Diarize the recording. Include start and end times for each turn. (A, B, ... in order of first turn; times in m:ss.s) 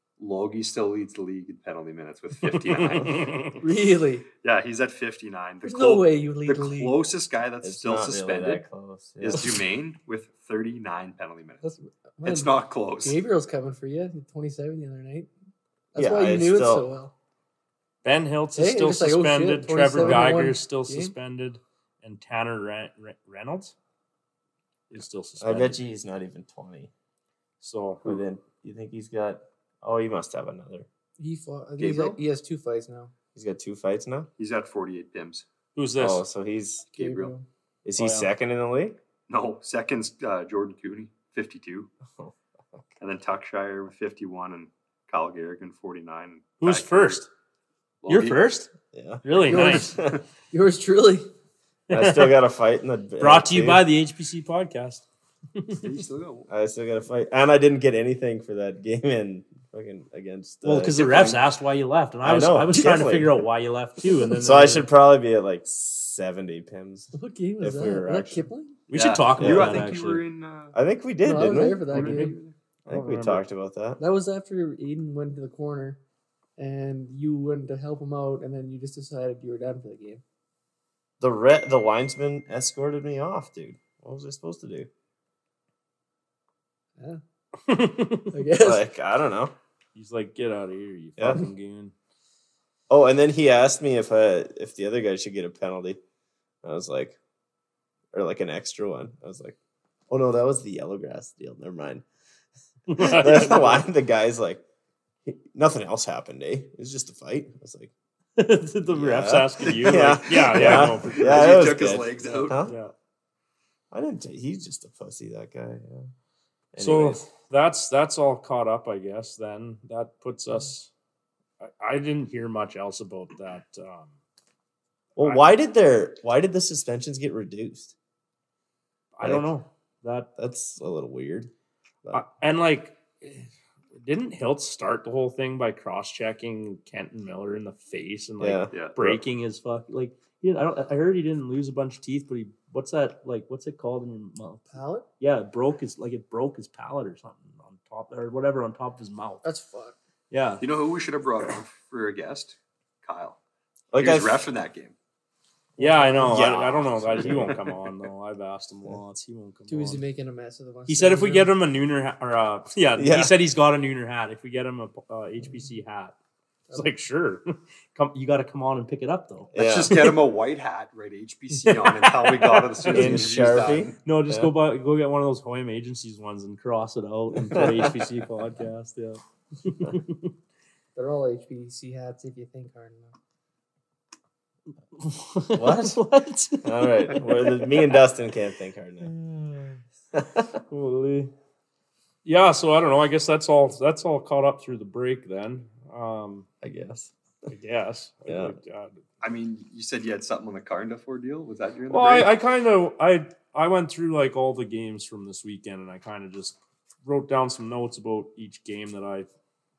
0:00.2-0:03.6 A
0:02.4-0:03.6 B
0:03.6-0:04.3 C
0:04.4-0:08.6 A
0:05.6-0:07.0 C
0:07.6-0:09.6 D
0:09.2-0:11.6 A
0:11.6-0:15.3 C
0:12.2-0:13.2 A
0:15.9-0:17.1 C
0:16.0-0:16.9 D
0:18.0-0:23.7 B
0:18.6-0:21.1 C
0:24.9-0:25.8 B
0:25.4-0:26.9 D
0:27.6-0:28.2 B
0:28.0-0:30.9 D
0:31.2-0:33.1 C
0:31.8-0:32.2 A
0:33.4-0:34.3 D
0:34.4-0:35.5 A
0:35.8-0:36.2 B
0:36.0-0:36.9 D
0:36.9-0:37.3 A
0:36.9-0:37.4 C
0:37.8-0:39.0 D
0:38.0-0:38.3 B
0:39.3-0:41.9 A
0:43.0-0:47.2 A
0:46.6-0:47.3 B
0:48.0-0:48.4 A
0:48.1-0:48.7 B
0:48.9-0:50.2 D
0:49.2-0:50.0 B
0:49.5-0:51.3 C
0:51.9-0:52.4 B
0:51.9-0:53.8 D
0:53.2-0:55.0 B
0:55.6-0:55.9 B
0:55.8-0:56.5 A
0:56.5-1:01.0 D
1:00.6-1:04.9 B
1:00.9-1:01.4 A
1:02.2-1:03.4 D
1:04.3-1:08.5 D
1:07.1-1:08.8 C
1:08.9-1:10.2 B
1:08.9-1:10.8 A
1:09.4-1:09.8 D
1:10.7-1:12.1 D
1:11.2-1:12.4 C
1:11.4-1:12.6 A
1:12.0-1:12.3 B
1:12.9-1:13.4 B
1:12.9-1:14.0 D
1:14.0-1:16.0 C
1:16.6-1:20.2 C
1:21.2-1:24.9 D
1:27.7-1:28.3 B
1:28.3-1:28.9 C
1:28.6-1:29.5 D
1:30.0-1:31.9 B
1:31.2-1:31.4 D
1:32.9-1:36.0 D
1:36.6-1:37.2 D
1:38.1-1:39.6 D
1:40.1-1:42.0 D
1:42.9-1:43.9 B
1:42.9-1:44.6 D
1:45.2-1:47.9 D
1:48.4-1:51.8 B
1:48.9-1:52.7 D
1:49.6-1:52.6 A
1:52.6-1:52.9 B
1:53.9-1:56.1 D
1:56.7-1:57.3 D
1:56.8-2:00.9 B
2:01.6-2:04.1 B
2:05.2-2:07.9 D
2:05.2-2:05.6 B
2:09.2-2:10.3 B
2:10.4-2:11.5 D
2:12.1-2:29.4 B
2:18.4-2:19.2 D
2:24.7-2:25.0 C
2:29.4-2:30.0 C
2:30.3-2:30.6 B
2:30.6-2:33.4 A
2:33.9-2:34.5 D
2:34.0-2:35.0 A
2:35.8-2:36.4 C
2:35.8-2:40.0 B
2:36.2-2:37.7 D
2:39.7-2:41.5 C
2:40.9-2:46.1 B
2:43.0-2:43.4 D
2:46.7-2:50.1 B
2:49.5-2:50.0 D
2:49.6-2:54.0 A
2:51.5-3:00.3 B
2:52.9-2:54.5 D
2:57.4-2:58.2 D
3:01.0-3:03.1 C
3:05.0-3:07.9 B
3:05.5-3:06.0 D
3:06.6-3:10.6 D
3:10.7-3:11.3 B
3:12.2-3:16.5 B
3:16.6-3:17.5 D
3:17.5-3:19.0 B
3:18.3-3:18.6 D
3:19.2-3:22.3 A
3:21.9-3:29.3 B